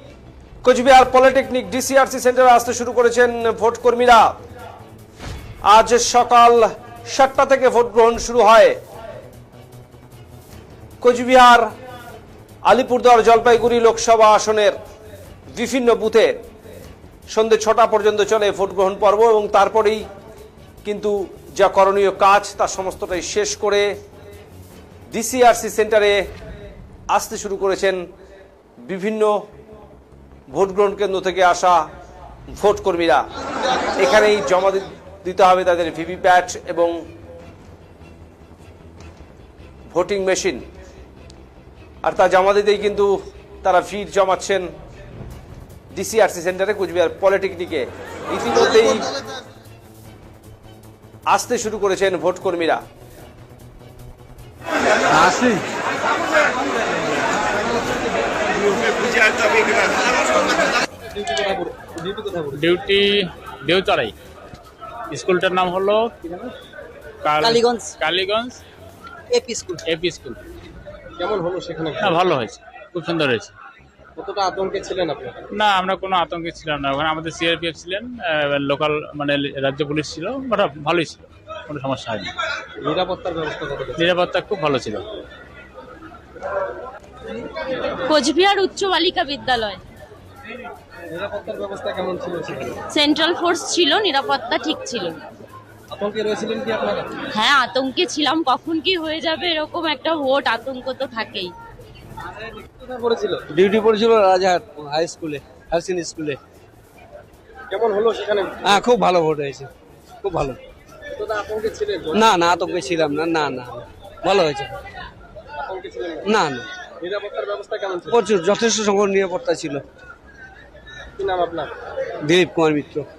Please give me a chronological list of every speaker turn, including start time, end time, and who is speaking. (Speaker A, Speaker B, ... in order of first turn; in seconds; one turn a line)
Speaker A: 0.6-4.3
Speaker A: 5.7-8.8
Speaker A: 11.0-11.7
Speaker A: 12.7-14.8
Speaker A: 15.6-16.3
Speaker A: 17.3-20.0
Speaker A: 20.8-23.9
Speaker A: 25.1-26.2
Speaker A: 27.1-28.0
Speaker A: 28.9-29.3
Speaker A: 30.5-31.8
Speaker A: 32.6-33.2
Speaker A: 34.0-36.9
Speaker A: 39.9-40.6
Speaker A: 42.0-43.1
Speaker A: 43.6-44.7
Speaker A: 45.9-49.1
Speaker A: 51.3-52.8
Speaker B: 61.1-62.6
Speaker C: 62.6-64.1
Speaker C: 65.1-66.5
Speaker C: 67.2-68.6
Speaker D: 67.4-67.9
Speaker D: 69.3-69.8
Speaker C: 69.9-70.4
Speaker B: 71.2-72.2
Speaker C: 72.0-73.5
Speaker B: 74.2-75.4
Speaker C: 75.6-82.3
Speaker B: 82.8-84.0
Speaker C: 84.0-85.0
Speaker E: 88.0-89.8
Speaker B: 91.1-92.8
Speaker E: 92.9-95.3
Speaker B: 95.9-97.2
Speaker E: 97.3-101.5
Speaker B: 102.5-103.4
Speaker D: 103.5-106.4
Speaker B: 107.7-108.8
Speaker D: 108.6-109.7
Speaker D: 110.2-110.6
Speaker B: 111.1-112.3
Speaker D: 112.1-114.8
Speaker B: 115.7-116.3
Speaker D: 116.2-116.7
Speaker B: 117.0-118.2
Speaker D: 118.1-119.8
Speaker B: 121.2-121.7
Speaker D: 122.2-123.1